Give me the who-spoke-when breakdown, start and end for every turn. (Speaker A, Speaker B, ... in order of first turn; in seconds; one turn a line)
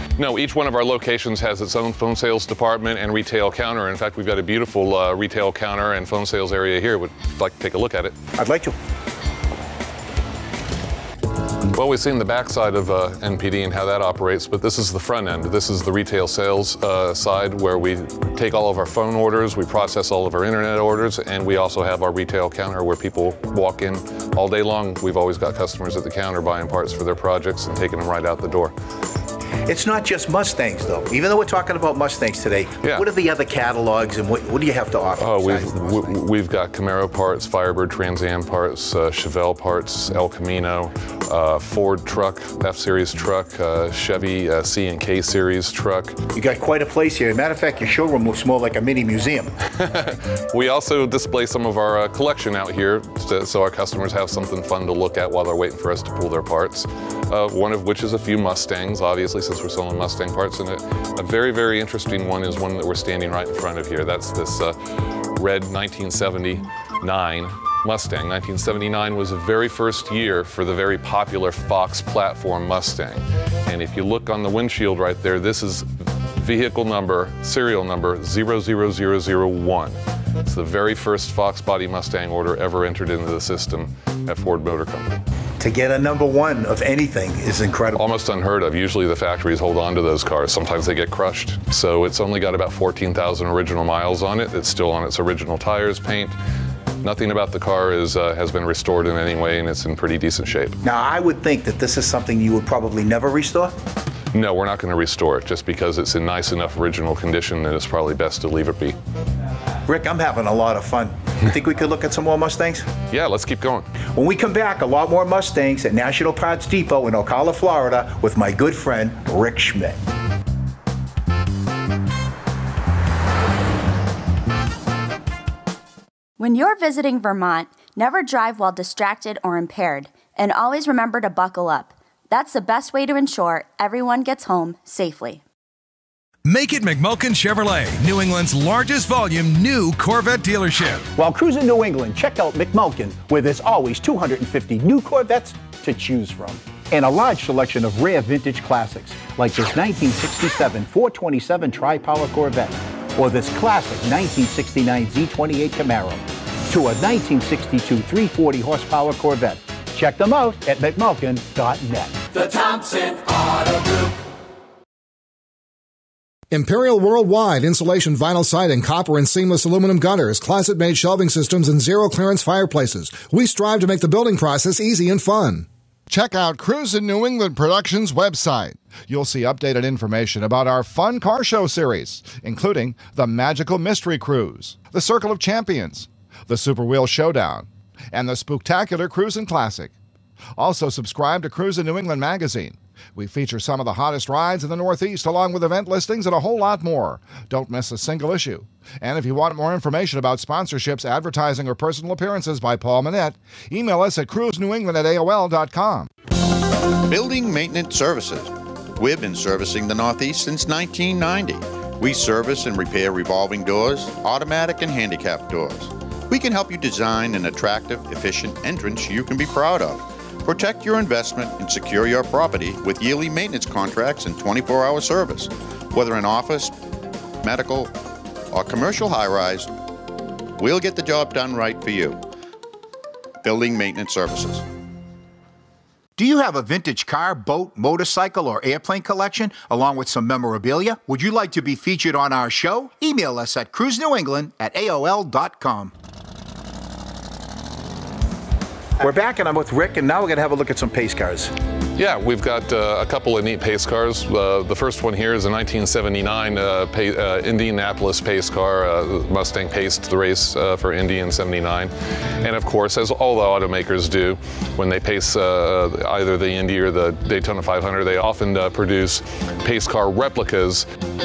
Speaker A: 0.2-8.2
Speaker B: 8.4-8.8
Speaker A: 11.7-28.7
Speaker B: 29.7-36.2
Speaker A: 35.2-46.2
Speaker B: 46.3-49.5
Speaker A: 49.7-64.8
Speaker A: 65.3-85.2
Speaker B: 85.6-88.0
Speaker A: 88.0-96.3
Speaker A: 97.0-100.8
Speaker B: 100.8-103.7
Speaker A: 104.3-109.0
Speaker B: 109.9-112.9
Speaker A: 113.1-113.9
Speaker B: 114.1-120.0
Speaker C: 126.4-135.4
Speaker D: 136.4-141.1
Speaker B: 141.2-162.2
Speaker E: 166.5-189.9
Speaker E: 190.6-206.1
Speaker F: 207.1-226.8
Speaker F: 227.4-227.9
Speaker F: 228.5-229.7
Speaker F: 230.6-232.2
Speaker F: 233.4-234.7
Speaker B: 236.2-245.9
Speaker B: 249.0-251.5
Speaker A: 252.0-270.9